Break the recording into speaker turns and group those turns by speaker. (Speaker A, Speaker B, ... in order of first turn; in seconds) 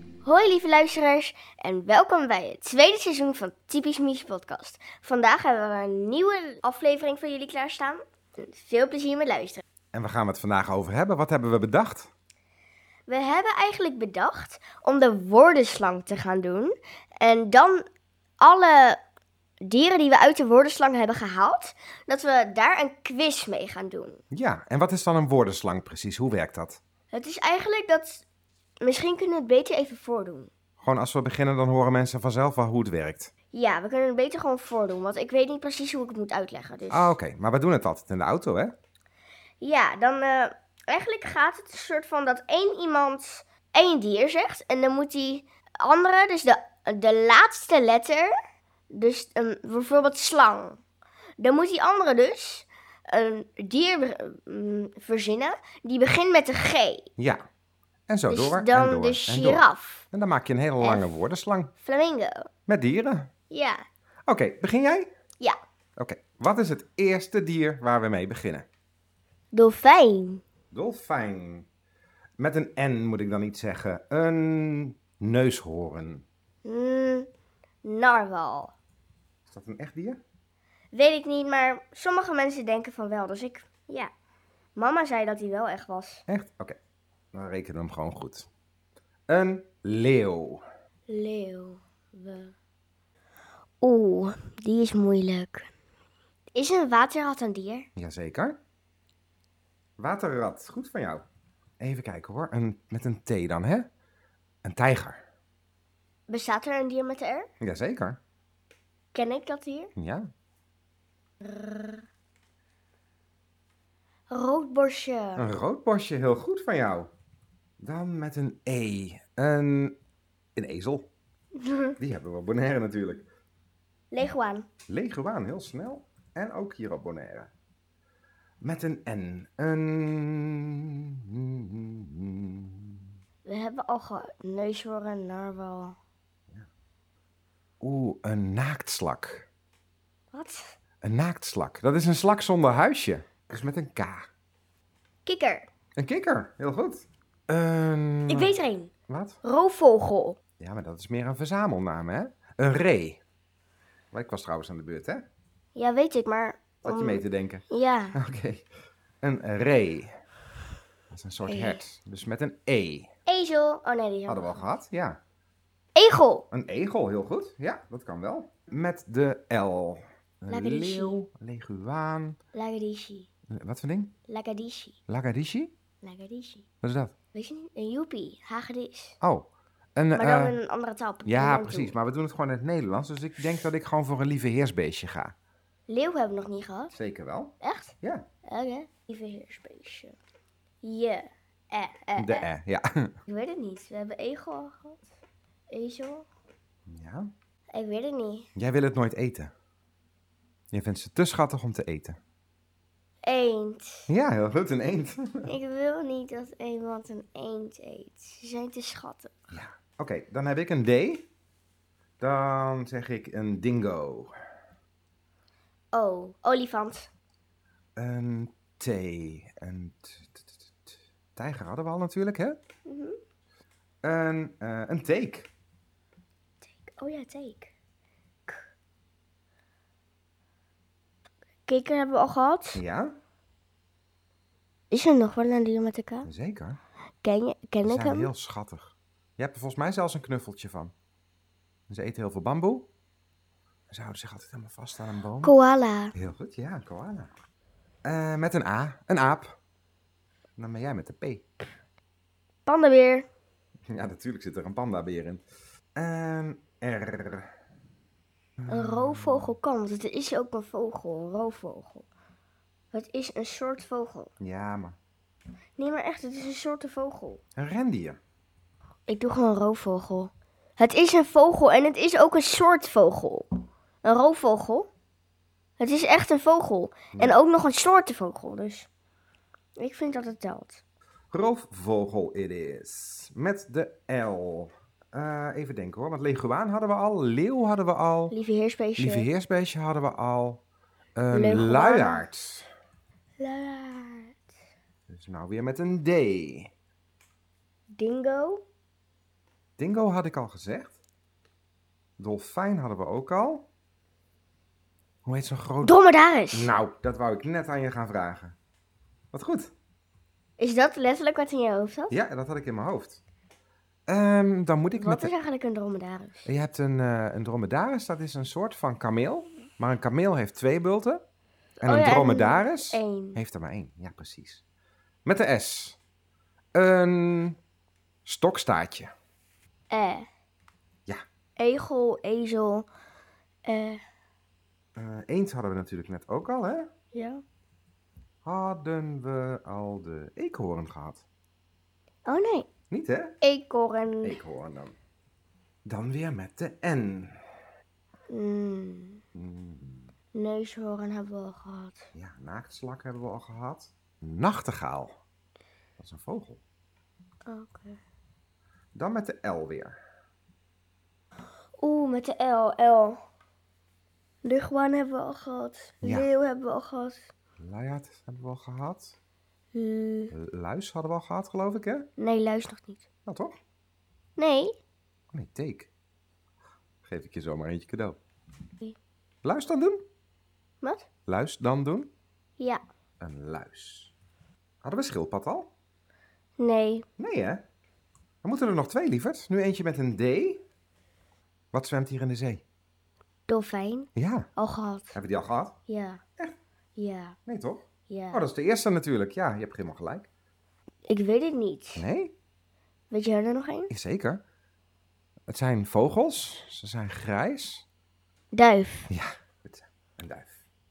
Speaker A: 0.2-9.6, 13.1-17.8, 18.4-19.0, 19.6-24.2, 27.1-28.2, 28.8-30.5, 33.5-37.2, 39.6-48.3, 48.9-50.8, 51.4-57.0, 58.3-60.0, 60.8-61.2, 61.8-62.5, 63.5-63.8, 69.5-70.4, 76.6-77.3, 77.8-78.7, 80.9-84.1, 84.8-86.2, 91.1-92.5, 93.8-95.7, 96.5-97.9, 106.3-107.5, 109.1-109.9, 111.4-112.0, 114.3-115.5, 121.5-122.0, 124.1-124.7, 133.4-135.9, 140.3-140.8, 145.2-145.7, 148.3-148.9, 149.4-150.4, 155.8-158.2, 161.4-161.8, 163.3-164.6, 165.9-166.4, 170.5-171.2, 172.5-173.3, 174.3-175.0, 176.0-176.6, 177.3-179.2, 180.1-181.9, 185.9-186.9, 187.6-190.2, 190.8-192.5, 193.3-195.1, 195.7-196.2, 197.7-198.5, 203.2-204.1, 205.4-209.4, 215.9-217.1, 222.9-223.2, 226.6-227.7, 231.7-232.8, 234.9-236.3, 237.2-238.3, 245.4-246.1, 252.7-253.3, 258.7-262.1, 262.9-264.3, 265.8-267.4, 269.1-274.9, 275.8-278.9, 279.8-280.8, 288.3-289.3, 291.3-292.2, 293.4-294.4, 297.9-298.6, 305.8-306.7, 310.6-312.2, 315.0-316.5, 321.8-323.4, 329.9-330.2, 331.6-332.9, 333.6-334.0, 337.1-337.4, 342.2-342.7, 343.4-344.4, 348.3-349.2, 350.3-352.1, 357.5-358.0, 361.8-363.2, 364.4-367.3, 369.7-370.3, 372.2-373.1, 374.4-374.8, 380.8-381.1, 386.6-387.1, 393.5-395.2, 395.9-396.2, 397.0-397.4, 398.1-398.4, 401.1-402.1, 403.1-403.9, 408.5-409.1
Speaker B: 9.9-12.1, 24.3-26.8, 30.8-33.3, 36.9-38.7, 57.2-57.4, 58.1-61.7, 62.7-63.3, 64.3-65.1, 66.0-68.7, 70.7-71.7, 72.4-76.2, 79.5-80.2, 86.3-86.8, 87.3-88.5, 89.3-90.6, 98.0-98.6, 100.0-101.2, 101.8-103.9, 104.6-105.2, 107.6-108.2, 110.0-110.2, 115.4-117.1, 117.8-120.0, 120.5-121.1, 122.0-123.3, 124.9-127.5, 128.6-133.0, 137.8-139.5, 141.0-144.3, 145.9-148.6, 149.1-149.4, 150.6-153.2, 154.1-155.2, 156.8-158.7, 159.2-160.1, 161.1-163.1, 164.3-165.2, 166.5-172.4, 173.5-174.1, 175.1-175.7, 176.8-177.1, 179.2-180.6, 181.2-185.3, 186.9-188.2, 192.2-193.1, 196.9-197.3, 198.6-199.5, 200.7-202.2, 204.1-205.5, 209.5-211.2, 212.2-214.3, 218.0-222.6, 224.0-225.5, 232.8-233.1, 236.2-236.8, 237.8-240.9, 241.9-242.9, 243.9-245.5, 246.1-247.3, 248.1-249.6, 250.6-251.4, 253.9-255.4, 256.0-257.5, 264.4-265.0, 267.6-268.2, 281.3-288.4, 289.0-290.6, 291.2-292.7, 295.1-296.7, 299.8-301.0, 302.2-303.7, 305.2-305.9, 306.5-308.6, 309.3-309.7, 312.1-313.2, 314.1-315.3, 316.5-321.2, 321.8-324.6, 325.2-326.0, 326.8-327.6, 328.2-329.1, 335.0-336.9, 338.4-341.2, 342.9-343.4, 344.2-345.0, 345.9-347.4, 349.4-350.1, 352.1-355.1, 356.0-356.6, 358.9-360.0, 366.0-366.3, 367.6-369.2, 370.3-372.1, 373.2-373.6, 375.3-375.9, 377.0-378.2, 379.4-380.0, 381.3-382.1, 383.2-384.1, 384.8-385.7, 387.2-387.6, 388.4-390.6, 391.7-392.6, 394.2-394.5, 395.1-395.8, 397.5-400.3, 402.0-402.3, 403.9-404.4, 405.5-407.9, 409.1-410.6